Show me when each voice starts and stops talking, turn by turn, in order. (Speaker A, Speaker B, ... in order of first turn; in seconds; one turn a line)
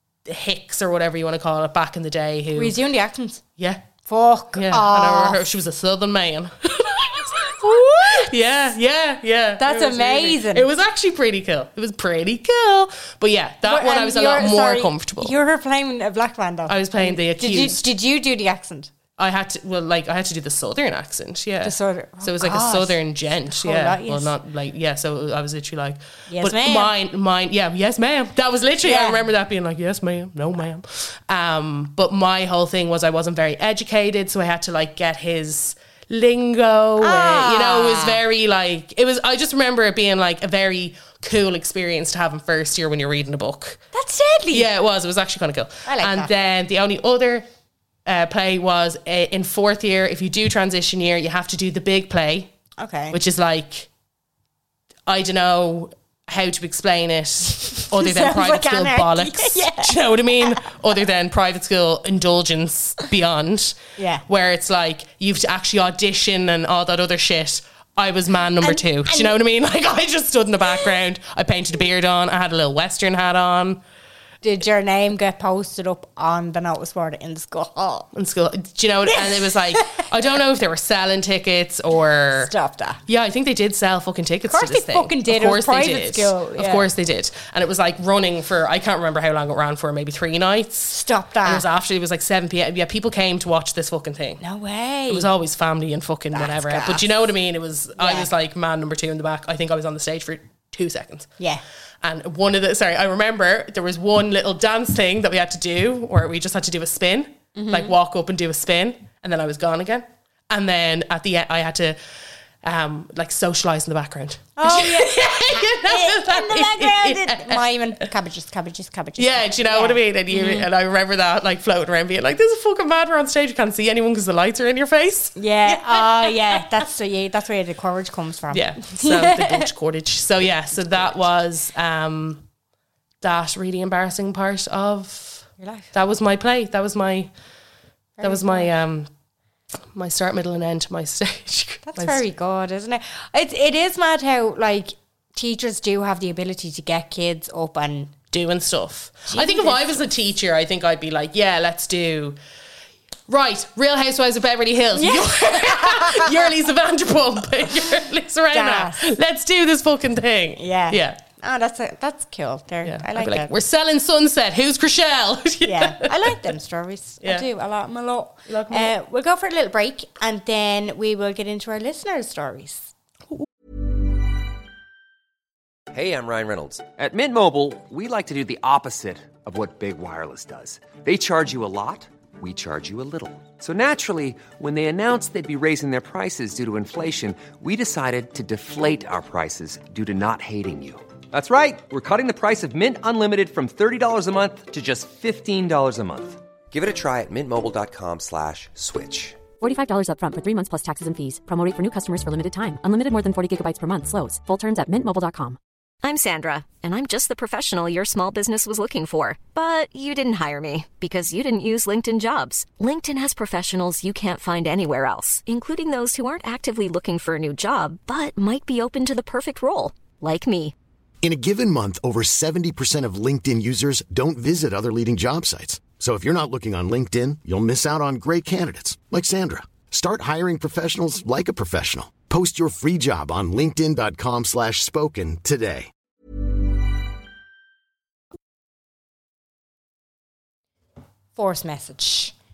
Speaker A: 0.2-2.8
Speaker B: 2.5-3.4
Speaker A: 3.6-3.8
Speaker B: 4.0-5.4
Speaker A: 4.5-15.3
Speaker B: 7.7-8.3
Speaker B: 9.6-10.7
Speaker B: 13.6-18.9
Speaker A: 16.7-17.9
Speaker A: 19.2-43.8
Speaker B: 21.6-24.3
Speaker B: 26.3-26.9
Speaker B: 28.8-29.2
Speaker B: 37.0-38.2
Speaker B: 43.9-44.7
Speaker A: 44.5-47.5
Speaker B: 45.8-46.3
Speaker A: 48.0-52.5
Speaker B: 52.8-53.2
Speaker A: 53.1-53.9
Speaker A: 55.0-73.8
Speaker B: 57.8-60.7
Speaker B: 64.0-64.2
Speaker B: 68.6-69.3
Speaker B: 74.4-78.1
Speaker A: 78.1-82.5
Speaker B: 79.1-80.0
Speaker B: 82.3-83.0
Speaker A: 83.0-94.4
Speaker B: 84.5-86.9
Speaker B: 90.9-91.7
Speaker B: 94.4-95.3
Speaker A: 95.1-101.3
Speaker B: 96.3-97.1
Speaker B: 98.0-98.3
Speaker A: 102.0-112.0
Speaker B: 107.5-107.9
Speaker A: 112.6-117.7
Speaker B: 114.6-120.7
Speaker A: 119.2-126.7
Speaker B: 125.3-129.7
Speaker A: 128.5-132.4
Speaker A: 133.2-137.3
Speaker B: 135.6-135.9
Speaker B: 138.2-138.7
Speaker A: 138.2-139.1
Speaker A: 139.9-142.2
Speaker B: 141.8-148.1
Speaker A: 148.3-152.4
Speaker B: 149.3-150.0
Speaker A: 153.3-161.2
Speaker B: 154.9-156.5
Speaker B: 158.5-159.1
Speaker B: 160.6-163.5
Speaker A: 162.8-166.4
Speaker B: 165.6-172.9
Speaker A: 168.5-168.9
Speaker C: 175.9-199.4
Speaker D: 199.6-205.6
Speaker E: 206.0-220.7
Speaker F: 221.2-235.9
Speaker B: 241.3-242.3